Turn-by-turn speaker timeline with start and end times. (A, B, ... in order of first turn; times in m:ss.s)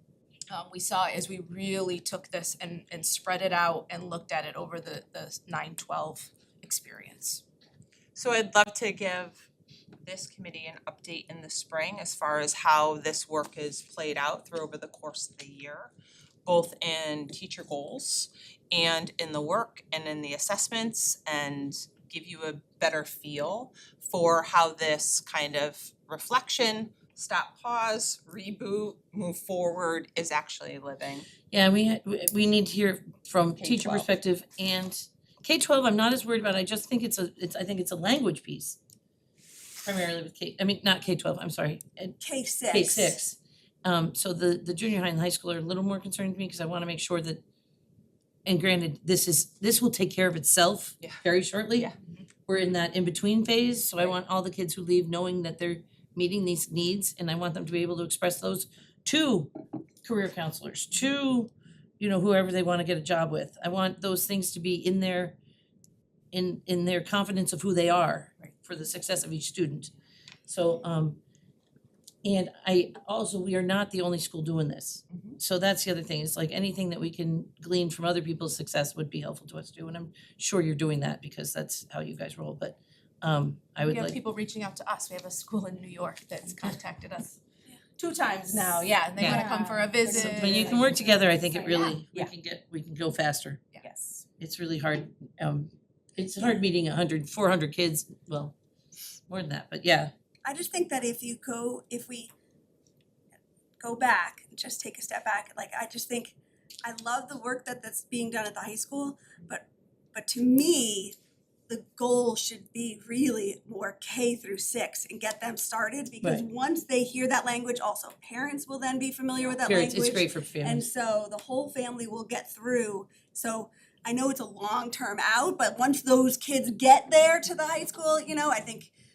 0:00.5-0:07.4 A
0:08.1-0:09.4 B
0:10.0-0:15.9 B
0:16.4-0:31.3 B
0:31.5-0:38.8 C
0:33.6-0:34.1 B
0:39.8-0:47.4 C
0:42.2-0:43.2 D
0:48.4-0:51.9 C
0:52.5-1:05.4 C
1:06.3-1:09.9 C
1:10.5-1:11.2 C
1:12.2-1:24.2 C
1:15.1-1:15.4 B
1:23.8-1:27.4 A
1:28.0-1:30.8 A
1:28.3-1:31.0 D
1:29.2-1:29.4 C
1:30.1-1:33.6 C
1:31.5-1:32.3 D
1:33.9-1:34.2 B
1:34.4-1:38.5 C
1:39.3-1:40.1 C
1:40.4-1:42.3 D
1:43.8-1:51.1 D
1:51.7-2:08.9 D
1:59.6-2:00.9 C